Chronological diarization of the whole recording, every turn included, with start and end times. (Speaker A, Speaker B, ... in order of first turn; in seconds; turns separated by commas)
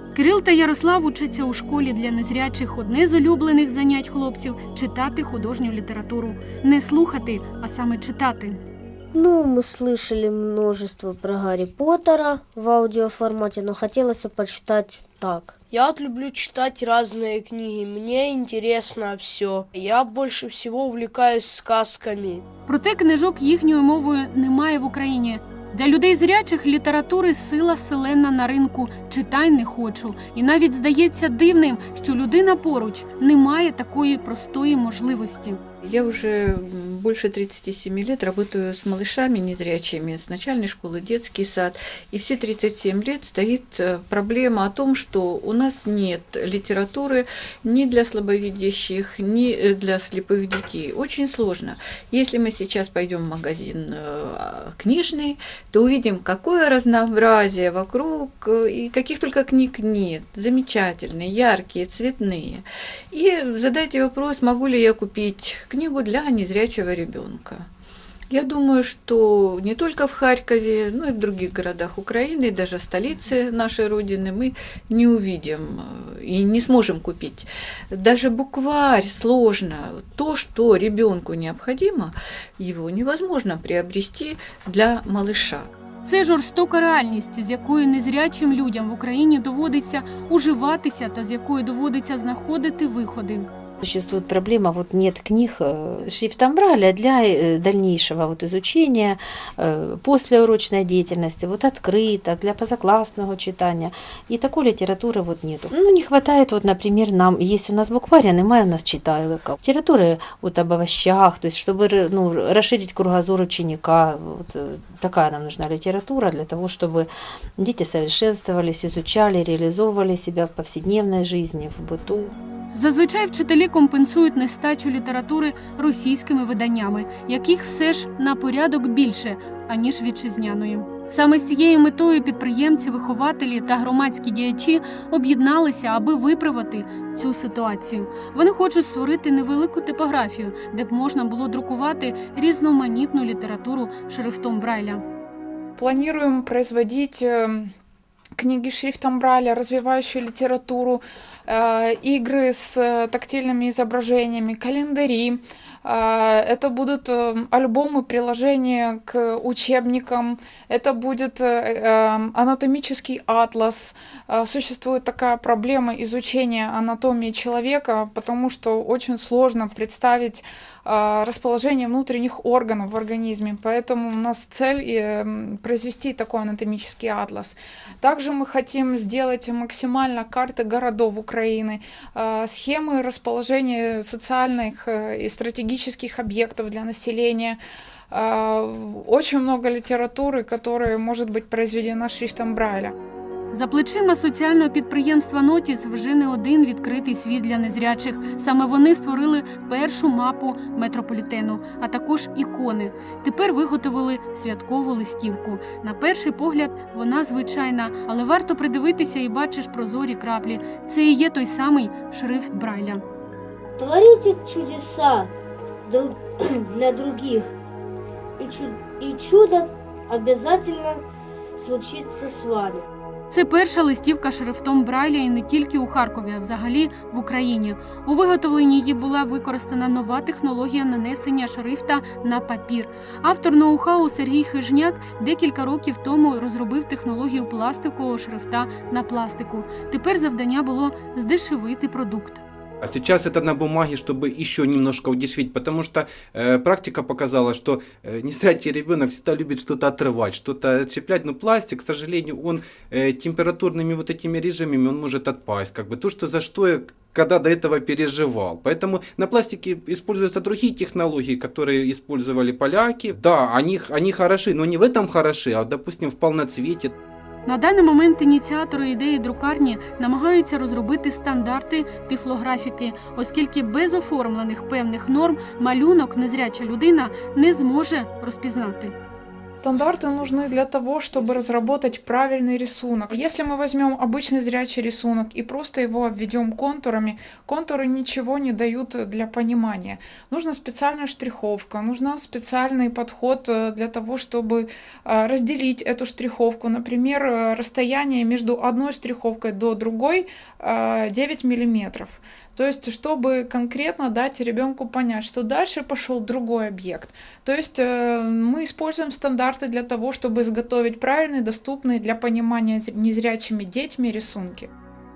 Speaker A: 0.1-8.6, Speaker B: 9.1-15.5, Speaker C: 15.7-22.4, Speaker A: 22.7-35.6, Speaker D: 35.8-67.6, Speaker D: 68.3-85.7, Speaker A: 86.0-93.5, Speaker E: 93.8-122.3, Speaker A: 122.7-145.0, Speaker F: 145.8-147.7, Speaker F: 148.4-187.6, Speaker F: 188.1-192.9, Speaker A: 193.5-213.0, Speaker B: 213.8-215.3, Speaker B: 215.9-217.5, Speaker B: 218.4-221.0, Speaker B: 221.6-222.8, Speaker A: 223.3-242.4, Speaker G: 242.8-266.9, Speaker A: 267.4-278.9, Speaker F: 279.6-314.7